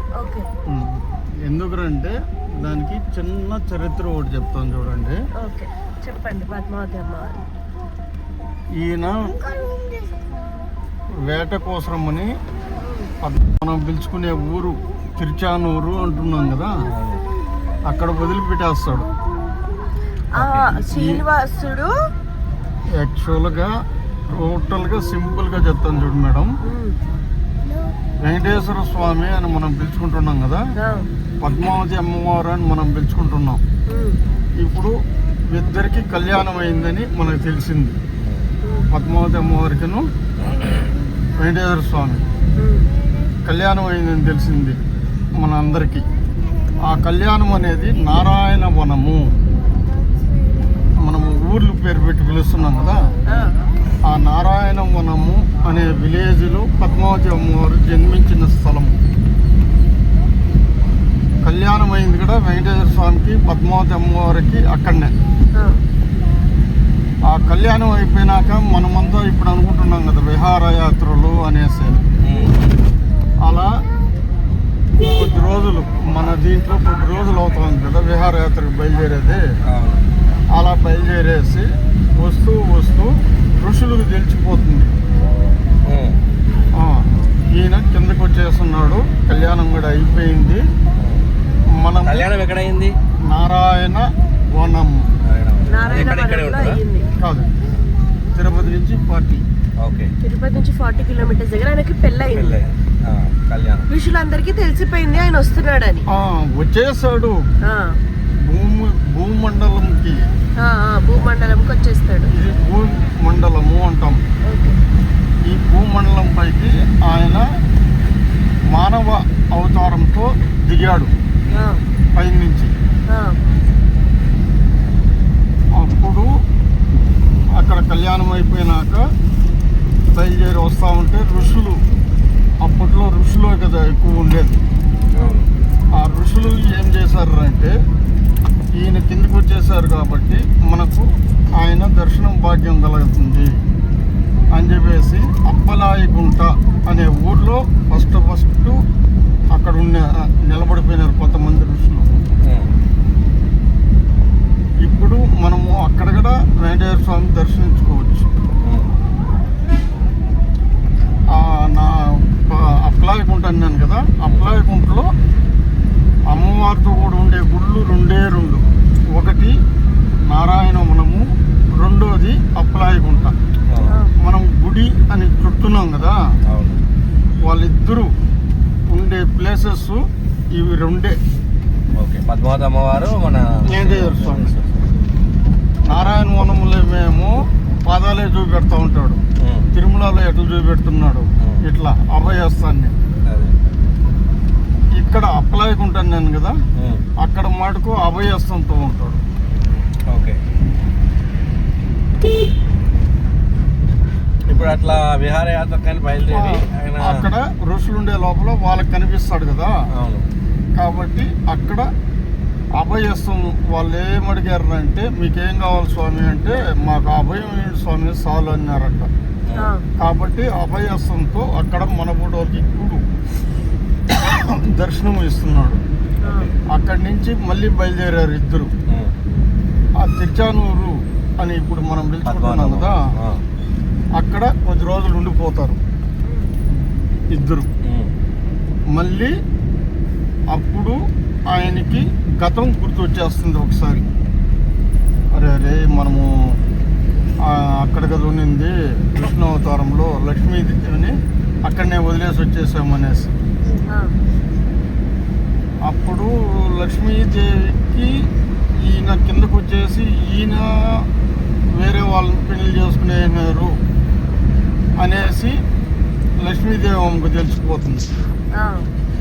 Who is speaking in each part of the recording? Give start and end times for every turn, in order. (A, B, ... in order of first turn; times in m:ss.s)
0:00.2-0:00.5 A
0:00.7-0:05.2 B
0:05.4-0:07.4 A
0:08.8-0:09.4 B
0:11.2-0:12.3 B
0:12.8-0:13.1 A
0:13.2-0:16.8 B
0:16.9-0:17.2 C
0:17.9-0:19.1 B
0:20.3-0:22.0 A
0:20.4-0:21.2 B
0:23.0-0:26.5 B
0:26.6-0:27.0 A
0:28.2-0:30.7 B
0:30.8-0:31.1 A
0:31.4-0:33.6 B
0:31.5-0:31.8 C
0:33.9-0:34.2 A
0:34.6-0:38.0 B
0:38.2-0:38.5 C
0:38.6-0:38.9 A
0:38.9-0:40.1 B
0:40.4-0:40.8 C
0:41.4-0:42.2 B
0:42.6-0:42.9 A
0:43.5-0:44.8 B
0:45.4-0:46.0 B
0:46.8-0:49.4 B
0:51.0-0:53.1 B
0:53.3-0:53.6 A
0:54.0-0:59.0 B
1:01.4-1:05.1 B
1:07.3-1:12.0 B
1:12.2-1:12.8 C
1:13.4-1:13.8 B
1:15.0-1:19.4 B
1:19.7-1:20.0 C
1:20.6-1:24.9 B
1:25.9-1:26.2 C
1:26.8-1:30.7 B
1:31.0-1:31.2 C
1:31.8-1:32.3 B
1:32.0-1:32.9 C
1:33.3-1:35.1 B
1:35.2-1:36.8 C
1:35.7-1:37.1 A
1:37.2-1:37.5 B
1:38.4-1:39.4 B
1:39.8-1:40.1 C
1:40.2-1:42.6 A
1:42.3-1:43.9 C
1:43.9-1:46.1 A
1:46.1-1:47.5 B
1:47.6-1:48.0 A
1:48.5-1:50.2 B
1:50.6-1:52.3 A
1:52.3-1:54.2 B
1:54.5-1:54.8 A
1:55.5-1:57.5 B
1:58.7-2:01.1 B
2:01.5-2:01.8 A
2:02.2-2:02.7 B
2:03.1-2:03.4 A
2:05.8-2:06.3 B
2:07.6-2:09.0 B
2:10.1-2:11.8 B
2:12.6-2:14.6 B
2:15.2-2:15.5 C
2:16.0-2:17.7 B
2:18.8-2:23.5 B
2:24.5-2:28.8 B
2:29.5-2:32.2 B
2:34.8-2:38.3 B
2:38.6-2:38.9 C
2:41.3-2:45.1 B
2:46.3-2:49.6 B
2:50.3-2:53.4 B
2:53.7-2:54.0 C
2:54.2-2:56.2 B
2:56.5-2:56.8 C
2:57.4-2:58.1 B
2:58.9-3:01.2 B
3:02.0-3:04.9 C
3:03.7-3:04.6 B
3:05.9-3:09.2 B
3:09.4-3:09.7 C
3:09.7-3:13.0 B
3:13.2-3:13.6 C
3:15.0-3:16.6 B
3:16.8-3:17.0 C
3:17.2-3:19.2 B
3:20.1-3:20.4 C
3:24.5-3:27.3 C
3:26.3-3:29.8 B
3:29.9-3:30.3 C
3:30.8-3:31.9 B
3:32.8-3:39.1 B
3:39.6-3:39.9 A
3:40.0-3:43.0 B
3:44.1-3:45.8 B
3:46.2-3:46.5 A
3:46.3-3:46.6 C
3:46.7-3:48.7 B
3:50.0-3:53.0 B
3:52.2-3:53.4 C
3:54.2-3:55.8 B
3:56.2-3:56.5 A
3:57.3-3:57.7 B
3:57.8-3:58.1 C
3:59.0-3:59.3 B
4:00.5-4:01.0 B
4:01.5-4:04.1 B
4:05.3-4:06.6 B
4:07.4-4:13.3 B
4:15.9-4:18.1 B
4:18.8-4:21.1 B
4:21.8-4:23.8 B
4:25.0-4:25.6 B
4:26.4-4:28.1 B
4:28.6-4:28.9 A